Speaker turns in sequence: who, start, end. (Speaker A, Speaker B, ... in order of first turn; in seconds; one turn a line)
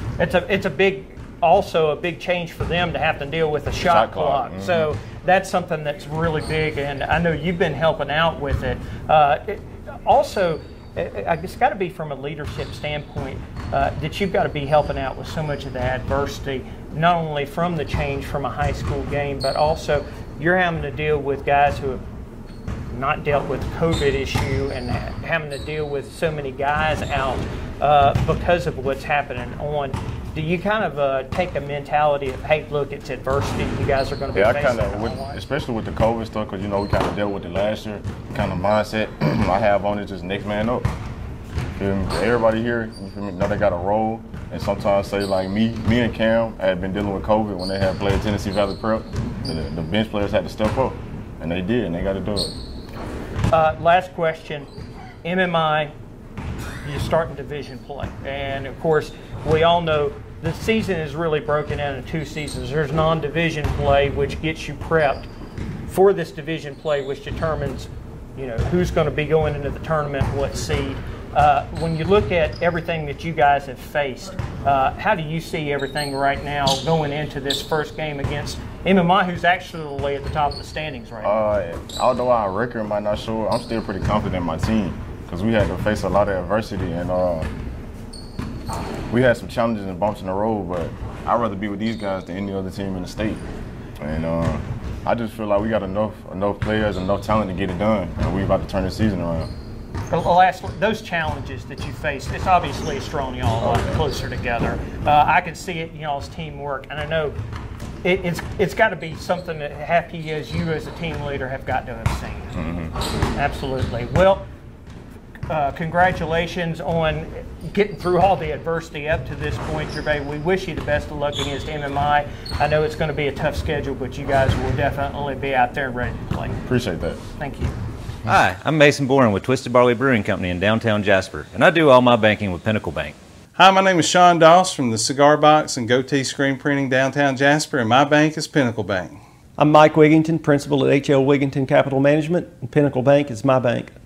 Speaker A: 0.2-22.0
Speaker B: 3.8-4.9
Speaker A: 22.9-35.4
Speaker B: 34.3-40.9
Speaker B: 41.8-52.5
Speaker A: 53.5-54.7
Speaker A: 55.2-55.9
Speaker A: 56.8-65.3
Speaker A: 65.8-81.4
Speaker B: 81.2-87.5
Speaker B: 89.1-93.4
Speaker B: 94.0-99.5
Speaker A: 100.1-107.3
Speaker B: 103.6-104.0
Speaker A: 108.0-112.6
Speaker B: 112.5-112.9
Speaker A: 113.3-114.5
Speaker A: 115.5-126.6
Speaker B: 126.7-127.2
Speaker A: 127.4-127.7
Speaker C: 128.2-133.1
Speaker D: 133.6-139.2
Speaker E: 139.6-143.9